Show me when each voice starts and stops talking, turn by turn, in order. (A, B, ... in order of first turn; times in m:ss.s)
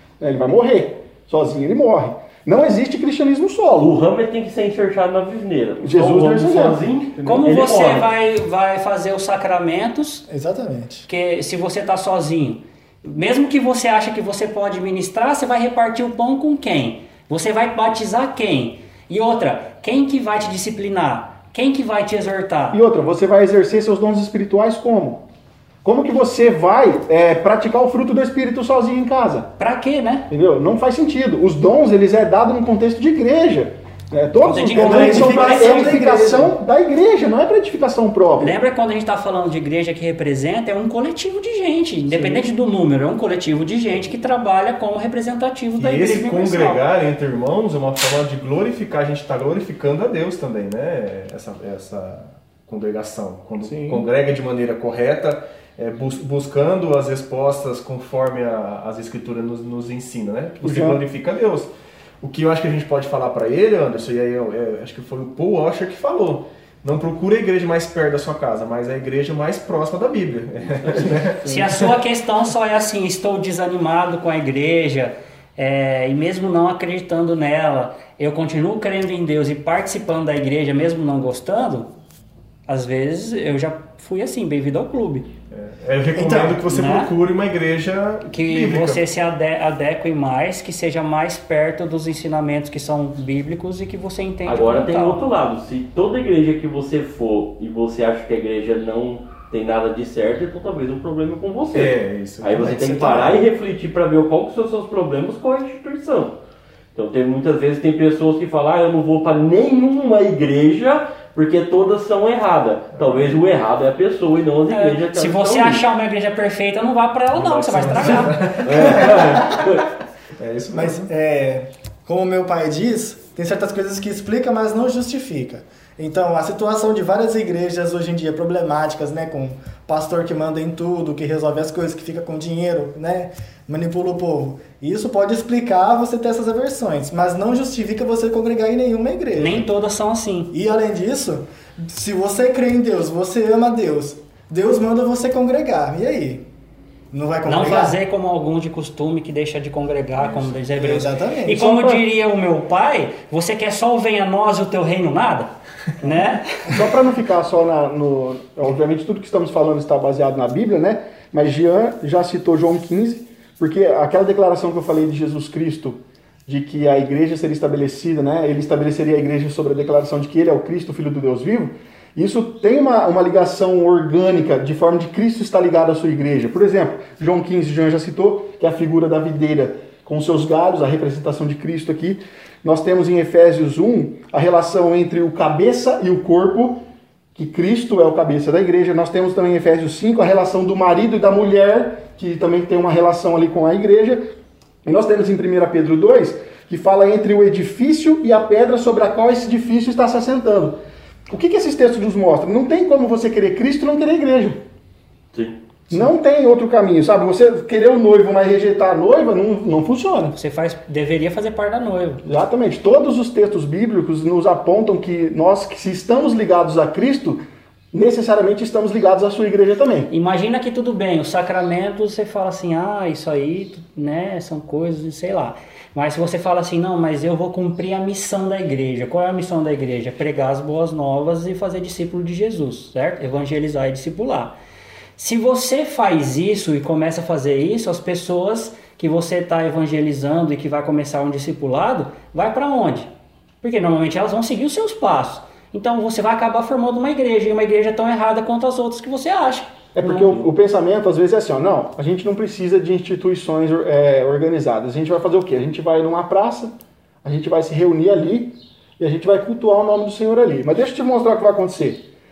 0:00.2-0:04.0 A
0:03.8-0:08.1 B
0:05.8-0:06.8 A
0:07.2-0:10.2 C
0:10.3-0:11.1 D
0:11.1-0:22.8 C
0:22.7-0:25.2 A
0:25.8-0:29.5 A
0:29.6-0:30.3 C
0:30.3-0:38.6 A
0:34.4-0:36.0 C
0:34.7-0:36.5 D
0:38.4-0:46.8 C
0:42.1-0:42.5 A
0:45.8-1:11.9 E
0:53.6-0:54.1 A
1:00.6-1:01.0 A
1:11.4-1:21.9 C
1:22.7-1:25.3 C
1:25.5-1:29.0 E
1:26.1-1:26.6 D
1:26.6-1:27.1 C
1:28.3-1:35.2 C
1:34.4-1:46.4 B
1:41.7-1:43.4 E
1:46.9-1:55.8 B
1:54.7-1:58.4 C
1:57.3-1:59.2 E
1:58.0-1:59.9 B
1:59.1-1:59.6 D
2:00.4-2:01.1 E
2:00.7-2:19.7 D
2:19.4-2:20.5 C
2:20.5-2:26.4 D
2:27.1-2:28.0 D
2:27.4-2:36.8 C
2:30.2-2:31.6 D
2:31.6-2:32.0 A
2:36.7-3:06.8 A
3:07.3-3:14.2 A
3:14.8-3:20.8 A
3:21.3-3:24.6 A
3:25.9-3:30.3 A
3:30.3-3:32.2 C
3:32.2-3:37.4 A
3:37.9-3:40.1 A
3:40.1-3:54.5 C
3:55.2-4:03.1 C
4:03.6-4:10.4 C
4:09.9-4:16.7 A
4:17.2-4:22.0 A